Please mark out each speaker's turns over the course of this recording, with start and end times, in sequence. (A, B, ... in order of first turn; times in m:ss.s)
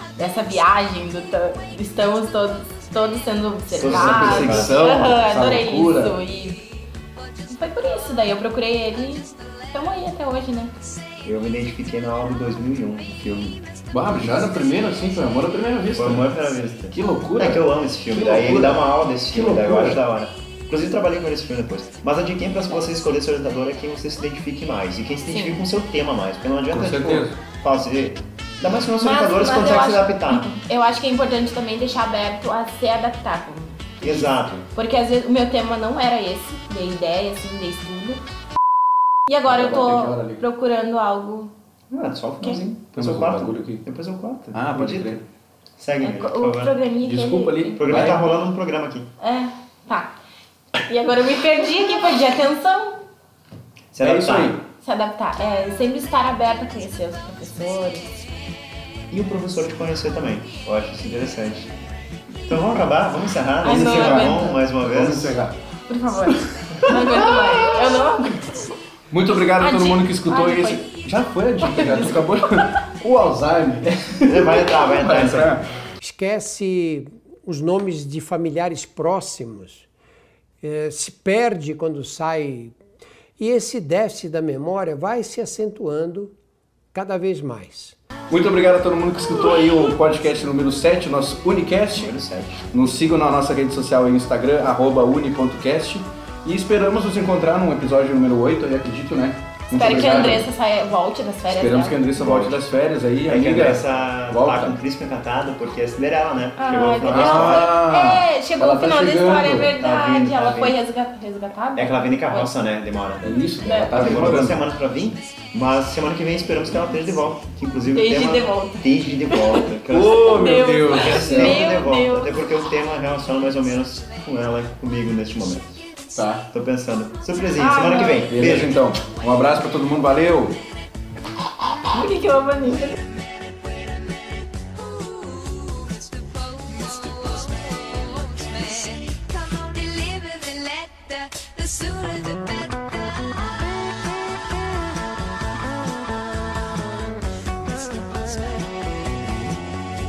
0:00.2-0:06.6 A
0:03.8-0:05.0 B
0:03.8-0:06.2 C
0:07.3-0:08.0 D
0:07.5-0:10.7 A
0:09.2-0:09.6 D
0:11.2-0:13.6 B
0:13.9-0:16.3 C
0:16.0-0:30.5 B
0:16.9-0:20.0 C
0:25.3-0:25.6 A
0:26.7-0:27.4 C
0:29.0-0:33.9 A
0:34.0-0:34.6 B
0:34.7-0:38.2 A
0:39.3-0:41.5 A
0:39.4-0:40.4 C
0:41.9-0:45.2 B
0:42.9-0:43.8 C
0:44.5-0:45.2 C
0:45.8-0:46.7 B
0:46.0-0:48.3 A
0:47.0-0:48.4 C
0:47.8-0:49.1 B
0:49.2-0:50.2 A
0:50.8-0:53.0 A
0:53.9-0:54.6 B
0:54.0-0:54.6 C
0:54.8-0:58.1 A
0:59.1-1:01.7 B
1:02.5-1:05.3 B
1:03.6-1:04.6 A
1:03.6-1:05.5 C
1:05.9-1:08.4 A
1:06.8-1:07.3 C
1:09.1-1:15.6 C
1:09.6-1:10.9 A
1:11.6-1:12.8 A
1:14.2-1:15.6 B
1:16.0-1:19.8 E
1:20.6-1:22.8 E
1:23.4-1:26.3 E
1:26.9-1:27.9 E
1:28.3-1:32.1 C
1:31.9-1:32.6 B
1:32.7-1:40.5 C
1:39.7-1:42.0 A
1:41.5-1:44.8 C
1:42.2-1:42.6 B
1:43.3-1:47.7 B
1:46.6-1:52.5 A
1:47.1-1:49.7 C
1:49.8-1:50.8 B
1:51.8-1:53.4 B
1:53.2-1:54.6 C
1:53.6-1:54.1 A
1:53.9-2:05.7 B
1:57.9-2:02.4 A
1:59.9-2:01.6 C
2:06.1-2:06.5 C
2:06.5-2:08.8 B
2:07.6-2:08.3 A
2:08.3-2:10.6 C
2:11.9-2:13.0 A
2:12.9-2:29.5 D